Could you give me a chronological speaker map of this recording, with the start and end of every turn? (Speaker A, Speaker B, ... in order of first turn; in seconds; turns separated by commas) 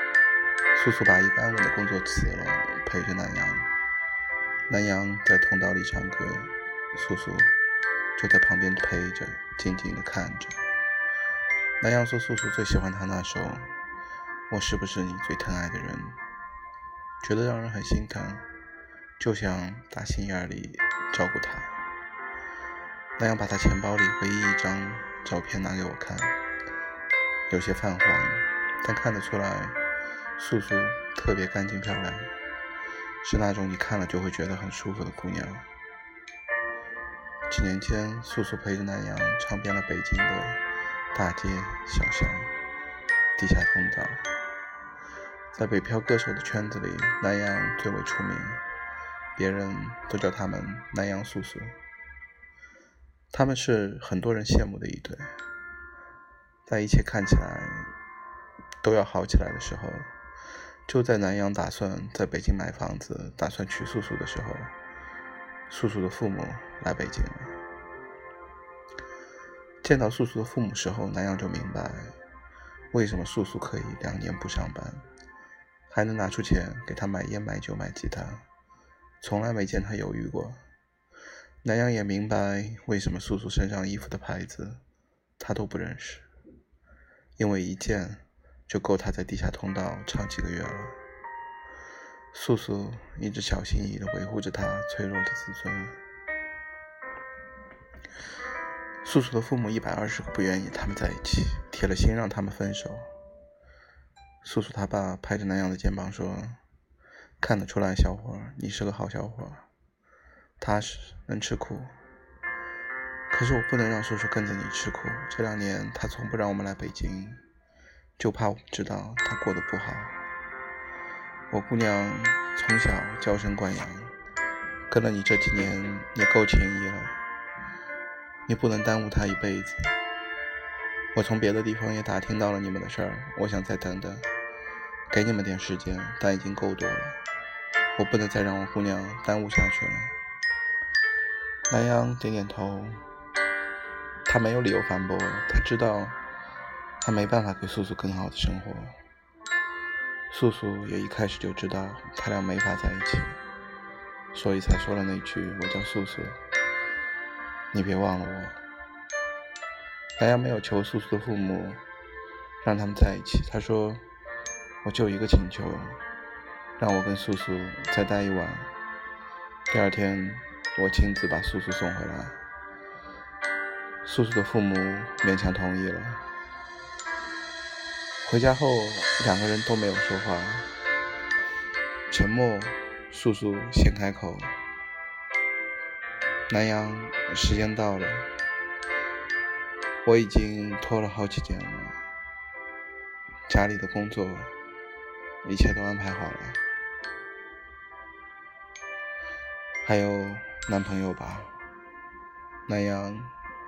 Speaker A: 0.7-3.7, Speaker A: 4.7-7.5, Speaker A: 8.2-10.6, Speaker A: 11.8-13.7, Speaker A: 14.5-16.2, Speaker A: 17.2-18.4, Speaker A: 19.2-21.7, Speaker A: 23.2-26.4, Speaker A: 27.5-29.8, Speaker A: 30.4-32.3, Speaker A: 33.2-35.7, Speaker A: 37.5-40.6, Speaker A: 41.1-42.5, Speaker A: 43.4-44.3, Speaker A: 45.5-48.6, Speaker A: 49.3-51.8, Speaker A: 53.3-55.3, Speaker A: 56.6-57.9, Speaker A: 58.8-60.1, Speaker A: 60.9-64.7, Speaker A: 65.7-67.6, Speaker A: 69.8-72.2, Speaker A: 72.9-75.0, Speaker A: 75.9-78.5, Speaker A: 79.2-80.6, Speaker A: 81.6-84.8, Speaker A: 85.4-86.3, Speaker A: 87.4-91.0, Speaker A: 92.3-96.0, Speaker A: 99.0-103.1, Speaker A: 104.4-106.6, Speaker A: 107.4-109.7, Speaker A: 110.6-111.9, Speaker A: 113.3-117.4, Speaker A: 118.2-120.2, Speaker A: 121.5-124.1, Speaker A: 124.9-127.1, Speaker A: 128.4-129.9, Speaker A: 131.1-134.3, Speaker A: 135.1-137.2, Speaker A: 137.9-140.2, Speaker A: 141.7-143.0, Speaker A: 144.2-146.2, Speaker A: 147.0-148.9, Speaker A: 150.3-153.4, Speaker A: 154.3-156.4, Speaker A: 157.7-158.6, Speaker A: 160.2-161.8, Speaker A: 162.6-164.0, Speaker A: 164.8-166.0, Speaker A: 166.8-168.7, Speaker A: 169.7-172.4, Speaker A: 174.0-176.2, Speaker A: 178.2-180.7, Speaker A: 182.1-184.6, Speaker A: 186.5-188.3, Speaker A: 190.0-192.0, Speaker A: 193.5-194.5, Speaker A: 195.4-196.6, Speaker A: 199.8-201.5, Speaker A: 202.7-203.3